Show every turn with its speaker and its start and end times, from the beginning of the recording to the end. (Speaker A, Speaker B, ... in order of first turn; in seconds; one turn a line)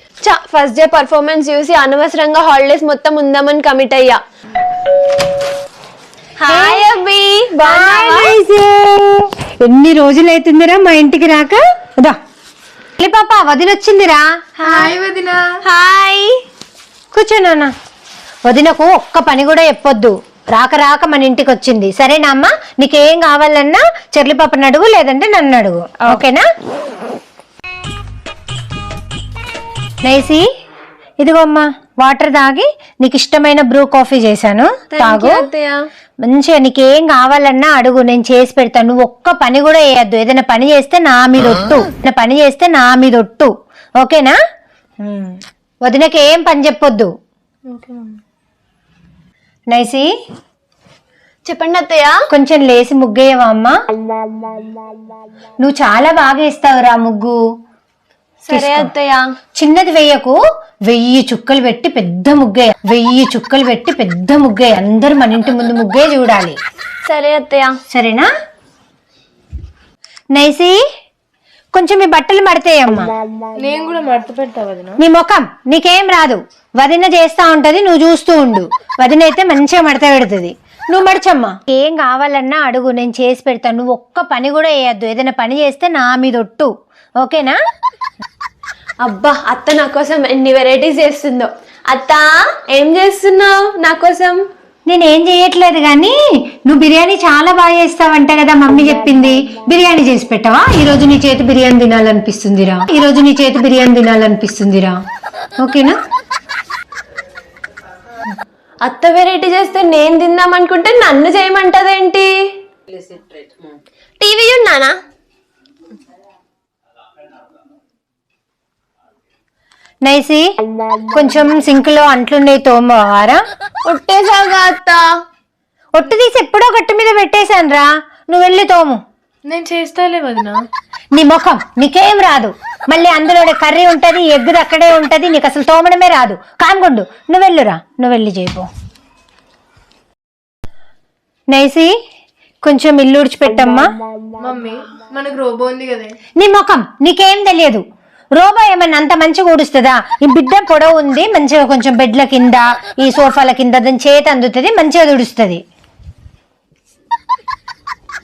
Speaker A: 0.2-4.2
Speaker A: 6.4-8.4
Speaker B: 6.5-6.8
Speaker B: 7.6-12.2
Speaker B: 13.0-14.3
Speaker C: 14.6-15.6
Speaker A: 14.7-14.9
Speaker A: 15.6-16.4
Speaker B: 17.1-17.7
Speaker B: 18.5-26.5
Speaker B: 30.0-30.4
Speaker B: 31.2-35.5
Speaker A: 34.9-35.8
Speaker B: 36.2-44.3
Speaker B: 45.0-47.1
Speaker C: 47.7-48.2
Speaker B: 49.7-50.1
Speaker A: 51.4-52.2
Speaker B: 52.3-53.7
Speaker B: 55.6-57.4
Speaker A: 58.4-59.2
Speaker B: 58.5-58.9
Speaker B: 59.6-60.4
Speaker B: 60.9-66.6
Speaker A: 67.0-67.8
Speaker B: 67.9-68.3
Speaker B: 70.3-70.8
Speaker B: 71.7-73.1
Speaker C: 73.6-75.0
Speaker B: 75.0-87.6
Speaker A: 89.0-94.4
Speaker B: 94.9-105.0
Speaker B: 105.6-106.0
Speaker A: 108.8-112.4
Speaker A: 114.2-114.9
Speaker B: 120.0-120.5
Speaker B: 121.1-123.4
Speaker A: 123.8-125.0
Speaker B: 125.9-129.0
Speaker C: 129.5-130.6
Speaker B: 131.1-138.7
Speaker B: 141.5-141.9
Speaker B: 142.6-143.9
Speaker C: 144.4-146.2
Speaker B: 146.4-147.8
Speaker B: 148.4-155.6